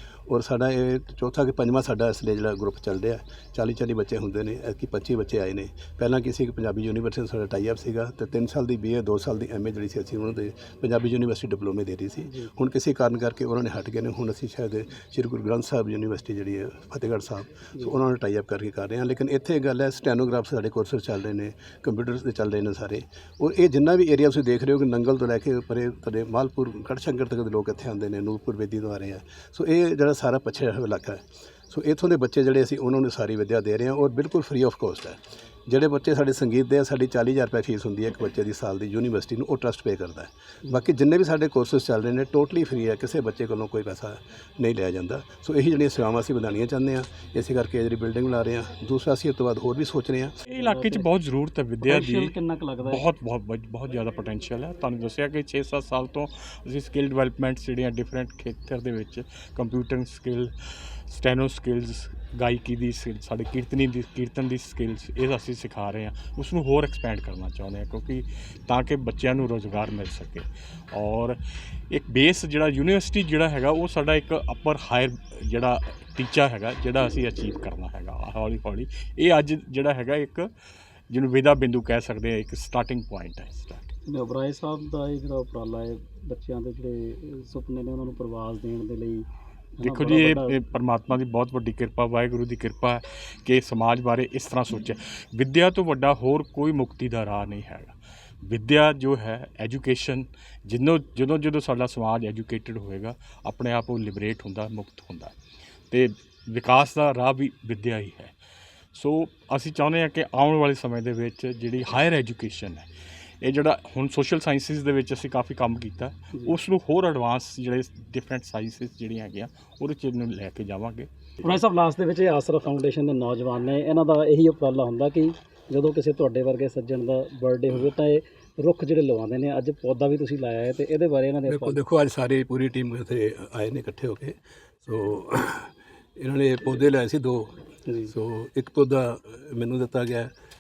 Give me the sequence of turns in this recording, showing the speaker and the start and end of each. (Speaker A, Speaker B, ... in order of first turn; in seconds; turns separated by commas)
Speaker A: 0.3-50.4, Speaker B: 12.3-12.5, Speaker C: 50.5-52.3, Speaker B: 50.6-51.1, Speaker B: 51.8-53.1, Speaker C: 52.9-80.5, Speaker C: 81.1-83.9, Speaker B: 84.1-90.6, Speaker C: 89.8-105.3, Speaker C: 105.9-108.3, Speaker C: 108.9-121.1, Speaker B: 121.4-131.8, Speaker A: 131.5-140.3, Speaker B: 137.9-138.1